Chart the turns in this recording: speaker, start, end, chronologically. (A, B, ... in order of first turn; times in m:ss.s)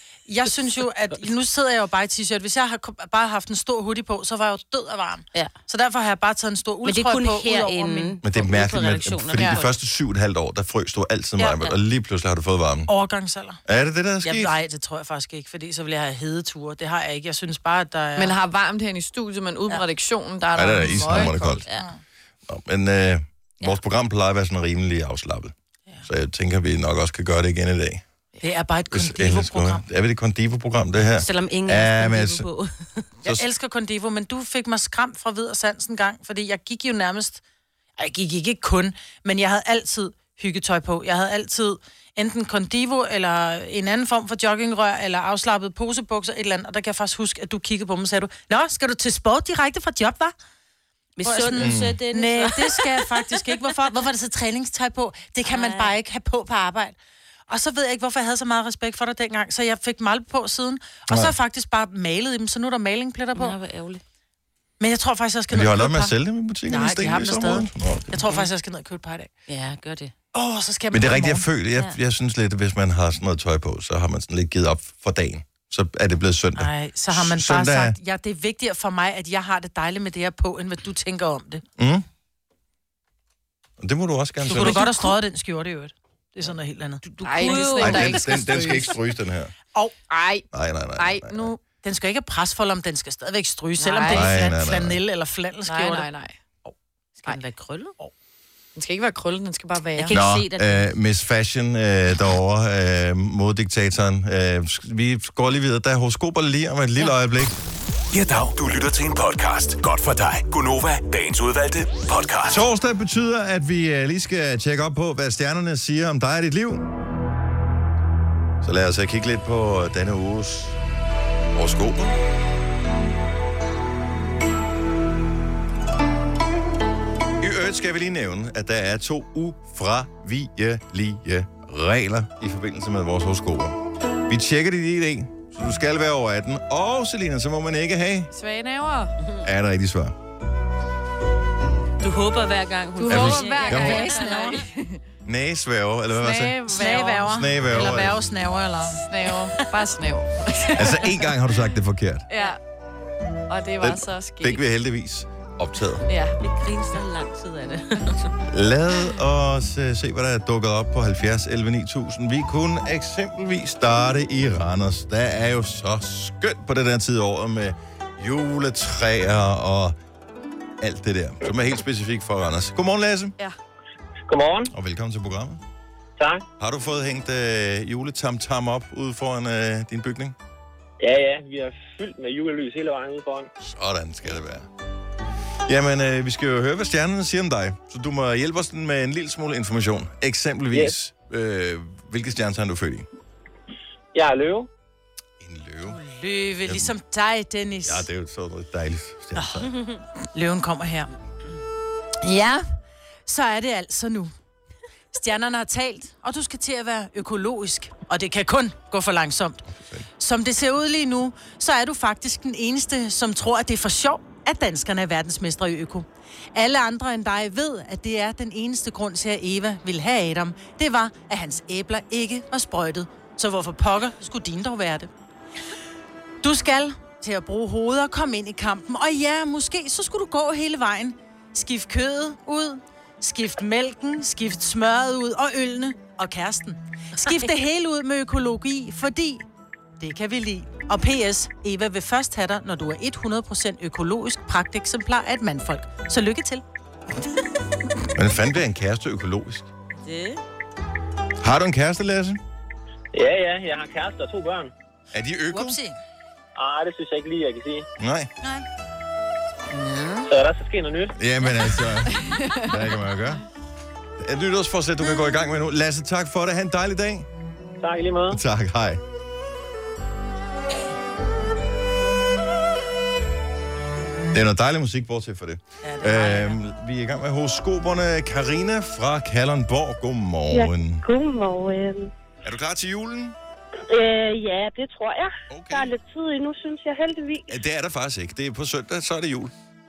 0:00.3-0:08.2 A
0:06.8-0:09.7 B
0:08.2-0:12.9 C
0:11.4-0:11.8 B
0:12.9-0:13.6 A
0:13.7-0:14.5 C
0:14.2-0:18.4 A
0:18.2-0:21.7 D
0:20.6-0:21.6 C
0:22.5-0:25.5 C
0:26.0-0:28.0 C
0:28.4-0:29.8 A
0:28.9-0:32.5 C
0:31.2-0:33.1 B
0:33.2-0:37.4 A
0:38.0-0:50.4 A
0:51.2-0:53.4 B
0:51.2-0:57.0 A
0:51.6-0:52.0 C
0:55.4-0:56.0 B
0:57.5-1:03.6 A
1:01.1-1:01.4 C
1:03.4-1:04.0 B
1:04.8-1:06.2 A
1:05.5-1:08.3 C
1:06.7-1:09.3 A
1:09.5-1:10.1 B
1:10.3-1:11.5 A
1:10.9-1:18.0 C
1:16.6-1:21.6 A
1:21.8-1:22.0 C
1:23.8-1:24.9 C
1:24.4-1:28.9 A
1:27.2-1:28.1 B
1:27.2-1:29.0 D
1:27.8-1:29.5 C
1:30.1-1:30.4 D
1:30.5-1:31.5 C
1:31.0-1:31.5 D
1:31.6-1:36.1 A
1:33.8-1:34.5 D
1:34.1-1:35.0 C
1:35.7-1:36.4 D
1:37.2-1:37.9 B
1:38.8-1:40.2 D
1:40.0-1:40.9 B
1:40.1-1:47.5 C
1:48.1-1:52.6 E
1:52.5-1:56.9 C
1:58.6-2:00.8 C
2:01.5-2:02.2 C
2:07.4-2:13.8 C
2:14.3-2:18.3 C
2:18.3-2:19.1 D
2:19.4-2:20.2 C
2:22.0-2:24.6 B
2:23.0-2:25.0 D
2:23.1-2:24.1 C
2:23.7-2:24.6 A
2:25.2-2:28.2 C
2:26.1-2:27.4 D
2:26.7-2:29.0 A
2:29.0-2:31.2 D
2:30.8-2:32.3 C
2:32.3-2:32.6 D
2:33.5-2:34.6 D
2:33.8-2:36.0 C
2:36.1-2:36.4 D
2:36.4-2:38.4 B
2:38.5-2:50.0 C
2:50.8-2:53.4 C
2:54.3-2:54.7 F
2:54.7-2:55.6 C
2:56.2-2:56.4 F
2:56.6-3:00.4 C
3:01.0-3:03.5 F
3:03.6-3:04.7 C
3:05.7-3:13.1 C
3:14.1-3:14.7 F
3:15.4-3:16.0 C
3:15.9-3:18.1 A
3:16.6-3:16.9 C
3:17.8-3:19.7 C
3:20.3-3:21.1 A
3:22.2-3:22.6 A
3:23.3-3:24.3 A
3:25.1-3:29.6 A
3:29.7-3:30.1 C
3:30.2-3:45.1 A
3:46.4-3:59.4 A
4:00.0-4:06.6 A
4:08.2-4:09.7 C
4:10.0-4:10.4 B
4:11.4-4:12.4 C
4:13.1-4:14.7 F
4:15.1-4:15.8 C
4:15.5-4:16.0 A
4:16.6-4:17.8 F
4:18.0-4:18.3 C
4:20.3-4:21.1 F
4:21.2-4:23.4 C
4:22.2-4:22.7 D
4:24.2-4:27.3 C
4:27.8-4:28.4 F
4:28.3-4:29.0 C
4:34.3-4:41.0 C
4:35.8-4:36.6 A
4:40.5-4:42.1 G
4:42.4-4:43.4 C
4:43.9-4:47.5 G
4:45.5-4:45.9 C
4:47.5-4:49.5 C